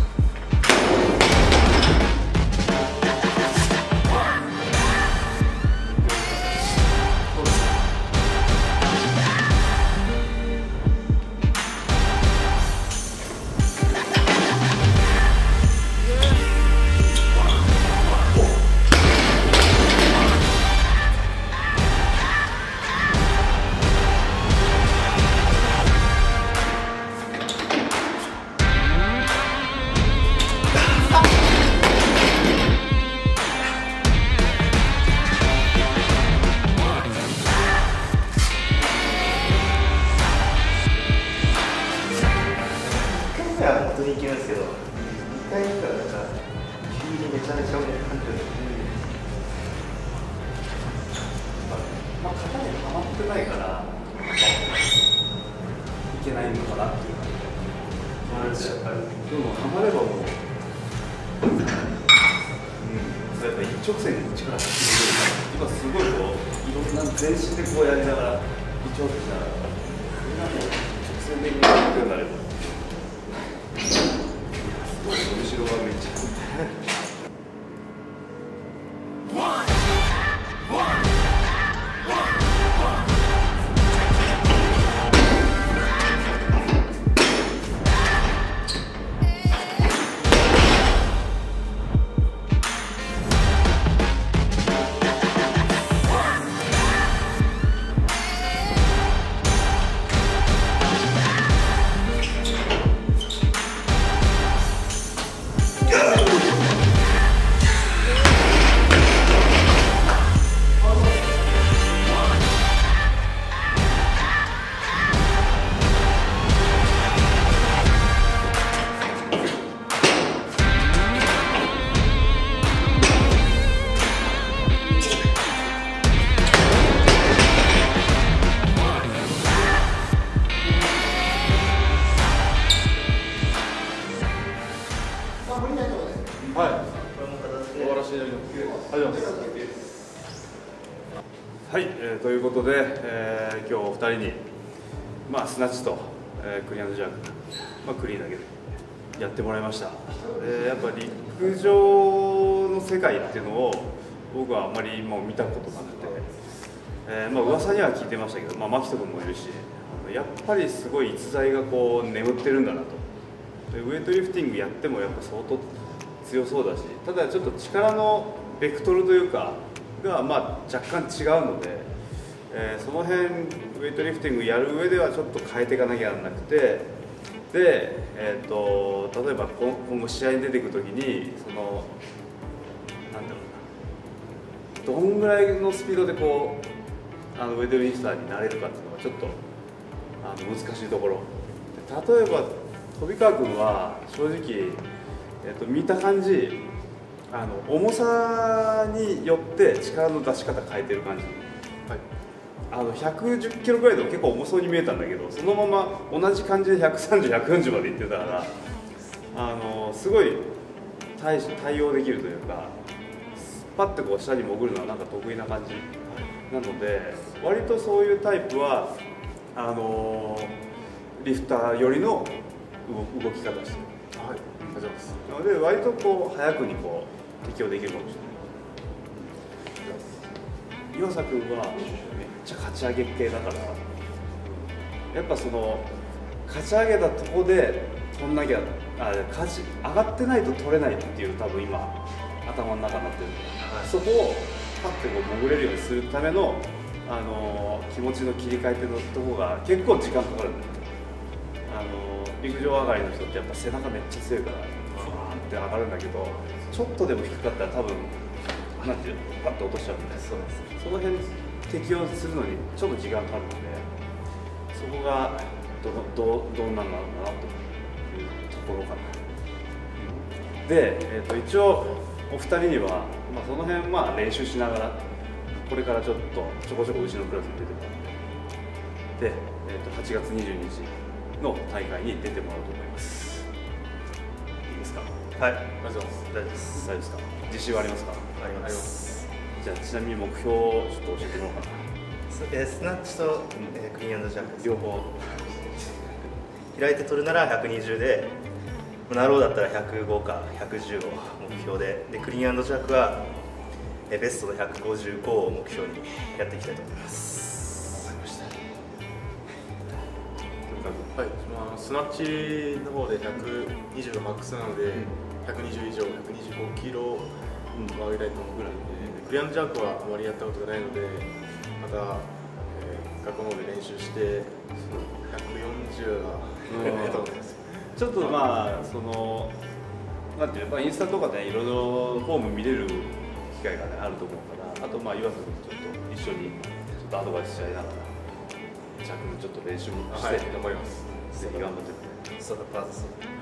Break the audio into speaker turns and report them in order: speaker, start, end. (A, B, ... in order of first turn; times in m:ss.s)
0:06.0-0:06.4 A
0:42.8-0:49.0 B
0:51.6-0:54.6 A
0:56.1-1:00.4 A
0:58.2-0:59.1 B
1:02.8-1:12.6 A
1:14.6-1:16.6 A
2:16.5-2:16.8 C
2:16.9-2:18.1 B
2:18.0-2:19.4 C
2:18.6-2:19.6 A
2:21.6-2:24.4 A
2:25.3-2:36.3 A
2:37.0-2:43.0 A
2:43.7-2:51.9 A
2:52.5-2:56.9 A
2:57.5-3:01.9 A
3:03.1-3:03.6 A
3:04.8-3:06.7 A
3:07.3-3:09.4 A
3:10.2-3:14.8 A
3:15.4-3:16.7 A
3:17.3-3:21.5 A
3:22.7-3:28.5 A
3:29.3-3:30.5 A
3:31.2-3:32.8 A
3:33.4-3:39.0 A
3:39.5-3:40.6 A
3:41.2-3:43.9 A
3:44.1-3:45.2 C
3:44.6-3:48.4 A
3:50.9-3:53.8 A
3:55.1-3:55.9 A
3:56.4-4:10.8 A
4:03.6-4:03.9 B
4:11.7-4:18.2 A
4:18.8-4:23.9 A
4:20.2-4:20.7 B
4:24.7-4:29.2 A
4:30.0-4:35.0 A
4:35.6-4:38.0 A
4:39.2-4:43.5 A
4:44.7-4:45.1 A
4:45.4-4:46.8 B
4:45.8-4:46.2 C
4:46.7-4:48.3 A
4:48.4-4:49.2 B
4:49.6-4:51.8 A
4:52.3-4:55.1 B
4:54.6-4:56.0 A
4:56.7-4:58.4 B
4:59.1-5:03.3 B
5:04.1-5:08.0 B
5:07.9-5:08.5 A
5:10.7-5:11.1 A
5:11.2-5:17.3 C
5:17.7-5:19.2 A
5:17.9-5:24.6 C
5:25.1-5:27.7 C
5:26.7-5:27.2 A
5:27.9-5:29.6 A
5:30.3-5:38.1 A
5:39.0-5:40.7 A
5:40.1-5:41.0 C
5:41.3-5:41.7 B
5:41.3-5:42.2 A
5:42.4-5:43.2 B